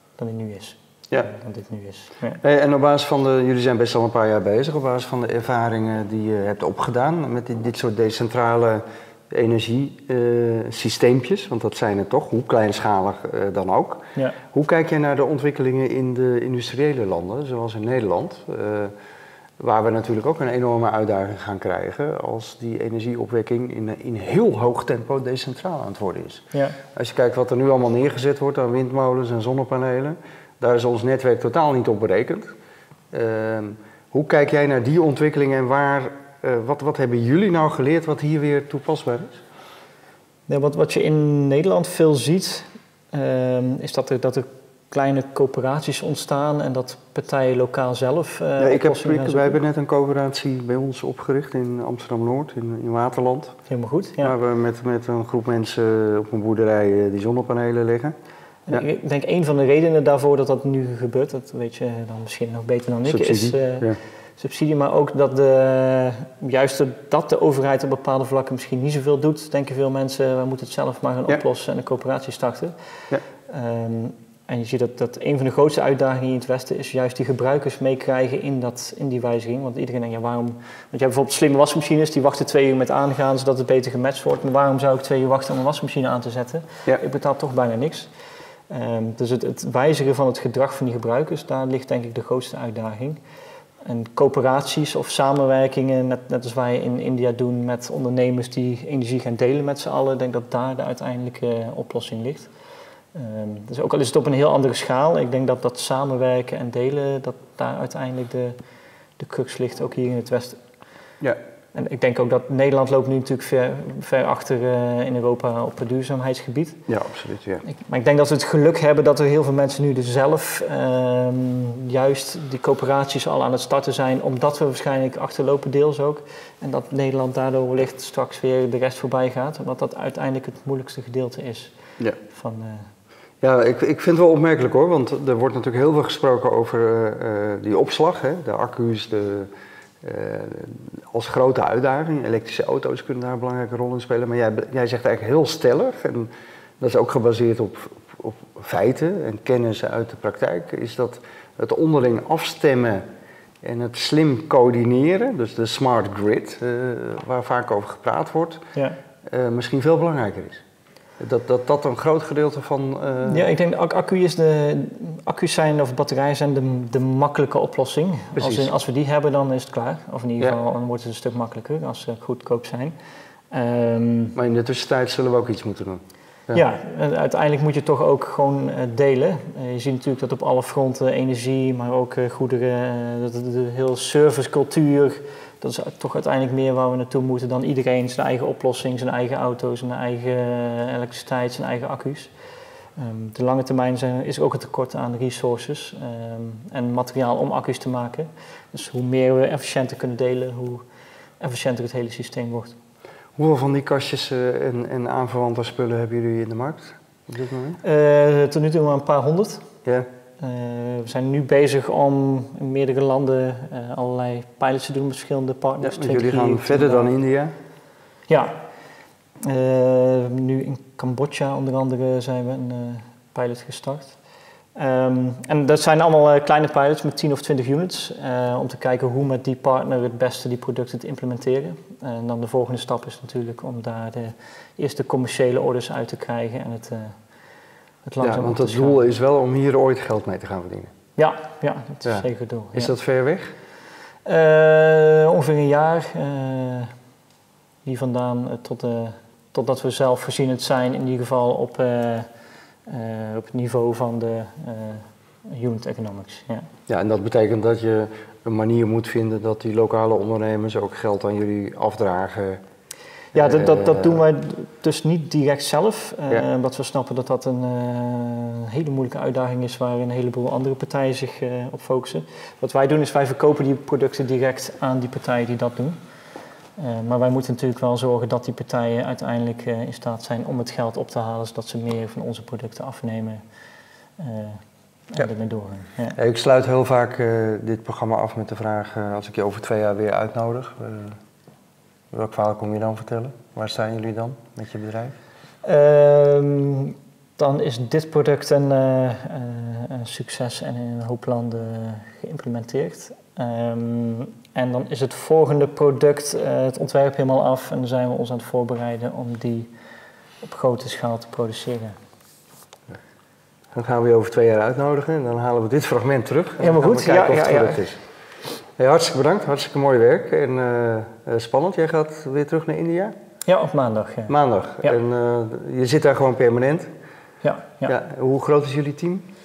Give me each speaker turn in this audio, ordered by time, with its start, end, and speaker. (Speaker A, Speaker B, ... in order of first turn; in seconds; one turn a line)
Speaker A: 0.2-2.4
Speaker B: 2.4-18.9
Speaker B: 19.6-32.5
Speaker A: 26.5-26.8
Speaker B: 33.1-39.4
Speaker A: 40.5-49.6
Speaker B: 48.6-53.5
Speaker A: 53.7-54.3
Speaker B: 54.2-58.1
Speaker A: 58.7-72.7
Speaker B: 63.0-64.0
Speaker A: 73.5-88.1
Speaker A: 88.7-93.2
Speaker A: 93.8-102.5
Speaker A: 103.1-108.5
Speaker A: 109.2-110.6
Speaker A: 111.7-116.8
Speaker B: 116.9-117.6
Speaker A: 117.6-132.9
Speaker B: 133.4-139.5
Speaker B: 140.0-153.0
Speaker B: 153.6-158.6
Speaker B: 159.2-160.6
Speaker B: 161.2-163.4
Speaker A: 163.3-172.9
Speaker B: 168.3-168.7
Speaker A: 173.5-174.3
Speaker B: 174.3-176.6
Speaker A: 176.5-192.3
Speaker A: 192.9-200.8
Speaker A: 201.4-202.8
Speaker B: 203.3-207.8
Speaker A: 207.8-209.7
Speaker A: 210.4-217.1
Speaker B: 215.8-217.5
Speaker A: 218.3-218.6
Speaker A: 219.4-224.2
Speaker A: 224.8-237.2
Speaker A: 238.1-239.0
Speaker B: 238.2-240.9
Speaker A: 241.2-242.9
Speaker B: 242.0-243.5
Speaker A: 244.2-246.9
Speaker A: 247.8-252.3
Speaker A: 252.9-256.7
Speaker B: 256.9-262.6
Speaker B: 263.3-264.2
Speaker A: 263.3-276.0
Speaker A: 276.8-283.4
Speaker A: 284.2-284.6
Speaker A: 285.1-286.1
Speaker B: 286.1-291.2
Speaker B: 292.1-295.2
Speaker A: 295.6-309.7
Speaker A: 310.4-311.9
Speaker B: 313.7-318.0
Speaker A: 316.6-317.8
Speaker B: 318.8-323.1
Speaker A: 323.4-325.0
Speaker B: 324.3-326.9
Speaker A: 327.4-327.9
Speaker B: 327.9-329.2